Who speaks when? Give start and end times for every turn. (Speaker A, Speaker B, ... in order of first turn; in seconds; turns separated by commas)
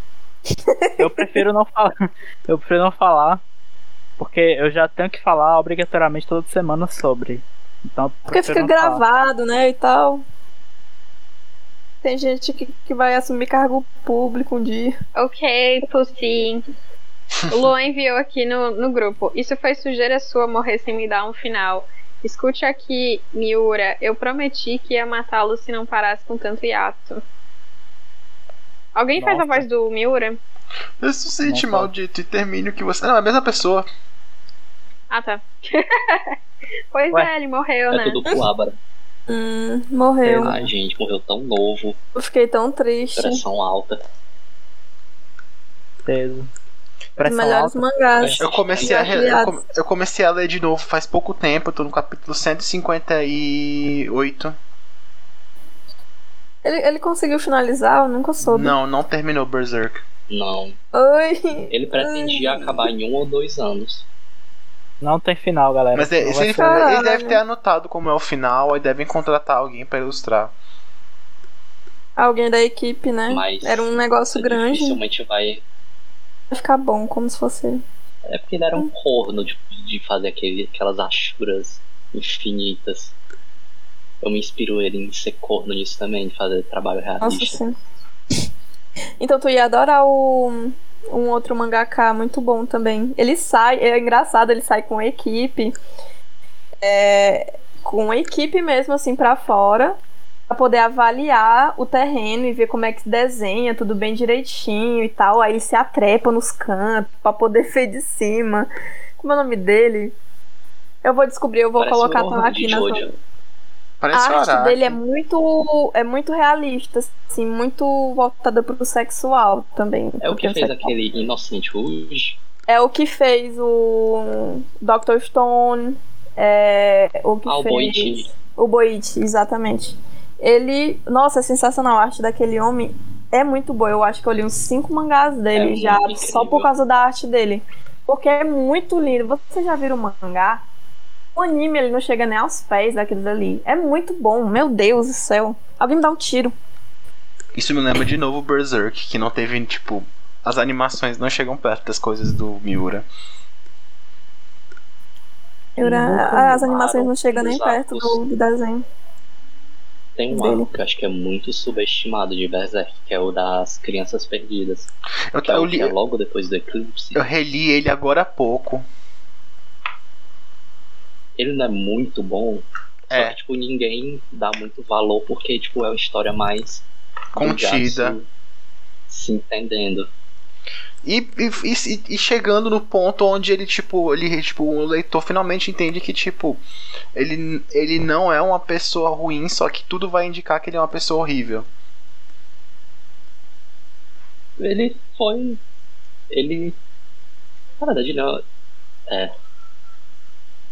Speaker A: 0.5-1.4, Speaker B: 1.0-3.4, Speaker B: 4.2-9.0, Speaker A: 8.3-10.2, Speaker A: 12.0-15.0, Speaker C: 15.2-16.7, Speaker C: 17.5-27.2, Speaker C: 28.9-30.4, Speaker B: 29.2-29.7, Speaker D: 31.0-33.9, Speaker B: 31.4-31.9, Speaker C: 35.1-36.4, Speaker C: 36.9-38.2, Speaker E: 37.9-38.8, Speaker A: 39.3-40.6, Speaker B: 40.2-40.7, Speaker E: 40.4-42.0, Speaker A: 42.1-43.4, Speaker E: 43.1-44.0, Speaker B: 46.1-46.5, Speaker B: 47.2-47.8, Speaker A: 47.2-49.6, Speaker E: 48.2-49.4, Speaker D: 48.4-54.6, Speaker A: 56.6-58.8, Speaker D: 58.4-60.0, Speaker E: 60.3-60.8, Speaker A: 60.9-62.9, Speaker E: 61.7-64.1, Speaker B: 65.0-66.8, Speaker D: 65.9-70.5, Speaker A: 66.6-67.4, Speaker A: 72.2-75.0, Speaker E: 73.3-75.6, Speaker A: 76.5-77.8, Speaker E: 78.3-83.1, Speaker E: 84.2-87.6, Speaker A: 87.2-87.8, Speaker A: 89.2-95.8, Speaker A: 96.8-100.0, Speaker A: 100.5-110.2, Speaker A: 111.0-113.1, Speaker E: 111.8-113.1, Speaker D: 114.0-115.0, Speaker A: 114.1-121.0, Speaker E: 120.2-122.4, Speaker A: 122.7-140.6, Speaker E: 127.5-128.3, Speaker E: 135.5-136.7, Speaker A: 141.3-146.5, Speaker D: 147.6-153.1, Speaker A: 155.8-158.8, Speaker E: 155.8-158.2, Speaker E: 160.2-167.2, Speaker A: 160.3-160.7, Speaker D: 165.3-165.9, Speaker D: 167.2-168.9, Speaker E: 171.4-178.3, Speaker D: 173.1-173.4, Speaker D: 177.4-178.2, Speaker E: 179.1-180.1, Speaker D: 181.0-186.6, Speaker D: 187.2-191.7, Speaker E: 194.6-195.6, Speaker E: 196.3-196.8, Speaker E: 197.8-198.4